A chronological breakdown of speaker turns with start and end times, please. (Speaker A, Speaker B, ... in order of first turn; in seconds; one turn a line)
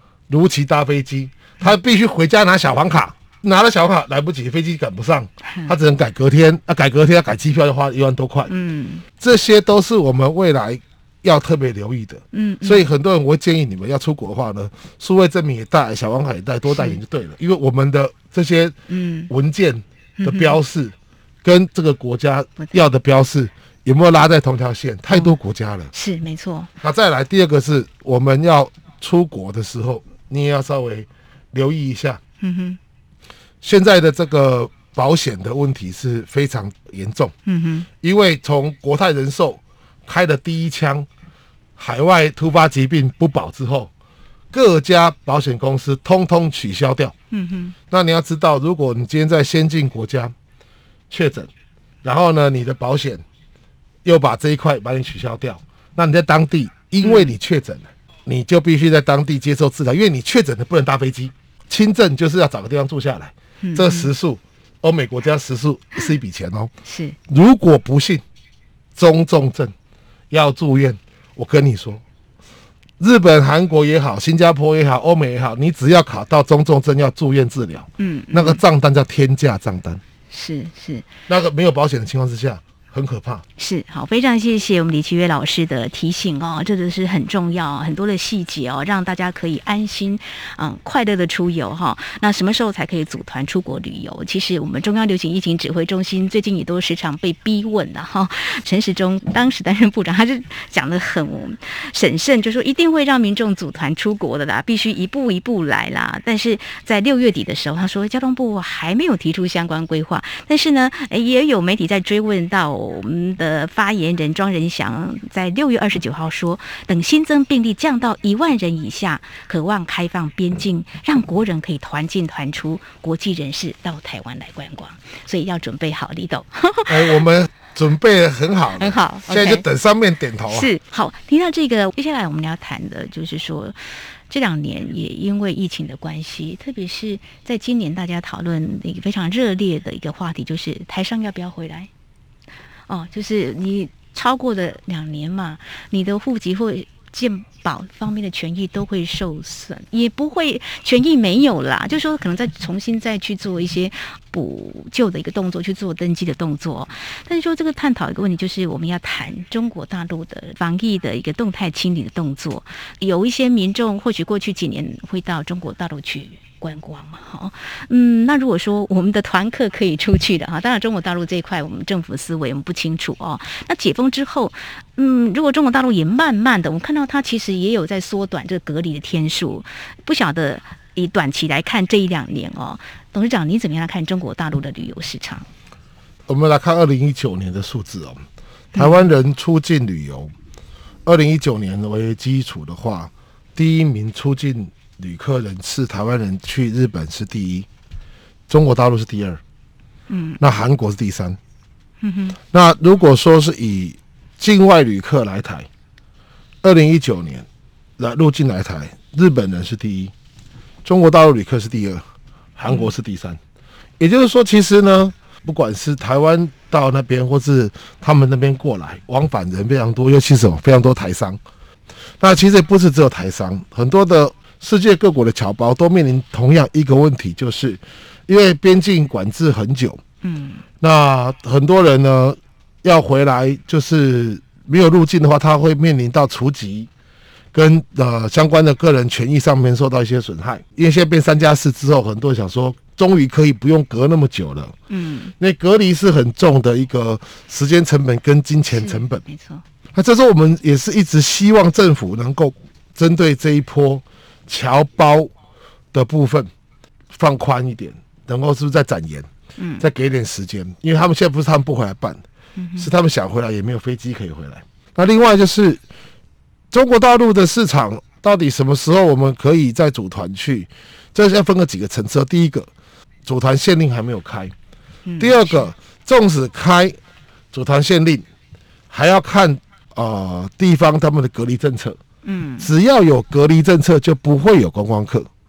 Speaker A: 0.3-8.5
Speaker B: 5.5-5.7
Speaker B: 8.5-9.1
Speaker A: 9.2-18.8
Speaker B: 12.3-12.8
Speaker B: 16.7-17.0
Speaker B: 18.9-19.3
Speaker A: 19.3-25.9
Speaker B: 20.2-20.6
Speaker B: 25.9-26.7
Speaker A: 26.8-32.2
Speaker B: 32.4-32.8
Speaker A: 33.6-37.3
Speaker B: 37.5-37.9
Speaker A: 38.0-41.1
Speaker A: 41.8-43.9
Speaker A: 44.5-47.1
Speaker B: 47.3-47.8
Speaker A: 47.9-50.3
Speaker A: 51.1-51.5
Speaker A: 52.0-53.2
Speaker A: 54.0-66.7
Speaker B: 57.0-57.3
Speaker B: 63.6-64.1
Speaker B: 66.9-67.2
Speaker A: 67.3-68.2
Speaker A: 69.0-69.7
Speaker A: 70.3-72.0
Speaker A: 73.0-80.0
Speaker B: 78.0-78.6
Speaker B: 80.3-81.1
Speaker A: 81.3-83.4
Speaker B: 83.6-127.2
Speaker A: 126.9-130.7
Speaker B: 128.8-129.7
Speaker B: 130.5-141.9
Speaker B: 142.9-185.5
Speaker A: 186.3-188.2
Speaker B: 188.8-189.0
Speaker A: 188.8-190.3
Speaker A: 191.1-197.7
Speaker A: 198.5-199.4
Speaker B: 200.1-200.4
Speaker A: 200.4-201.4
Speaker B: 202.0-202.4
Speaker A: 202.5-205.7
Speaker A: 206.6-207.5
Speaker A: 208.0-210.1
Speaker A: 210.8-213.4
Speaker A: 214.0-221.4
Speaker A: 222.2-230.0
Speaker B: 230.2-230.6
Speaker A: 230.8-236.9
Speaker A: 237.5-244.7
Speaker B: 244.9-245.3
Speaker A: 245.4-249.2
Speaker B: 248.7-249.6
Speaker A: 249.9-255.3
Speaker A: 255.9-256.5
Speaker A: 257.1-259.3
Speaker B: 259.6-259.9
Speaker A: 259.8-262.2
Speaker B: 262.6-262.9
Speaker A: 262.8-265.8
Speaker A: 266.7-272.7
Speaker A: 273.3-274.5
Speaker B: 275.1-275.7
Speaker A: 275.2-277.0
Speaker A: 277.5-278.2
Speaker A: 278.9-282.0
Speaker B: 282.2-282.7
Speaker A: 282.6-285.3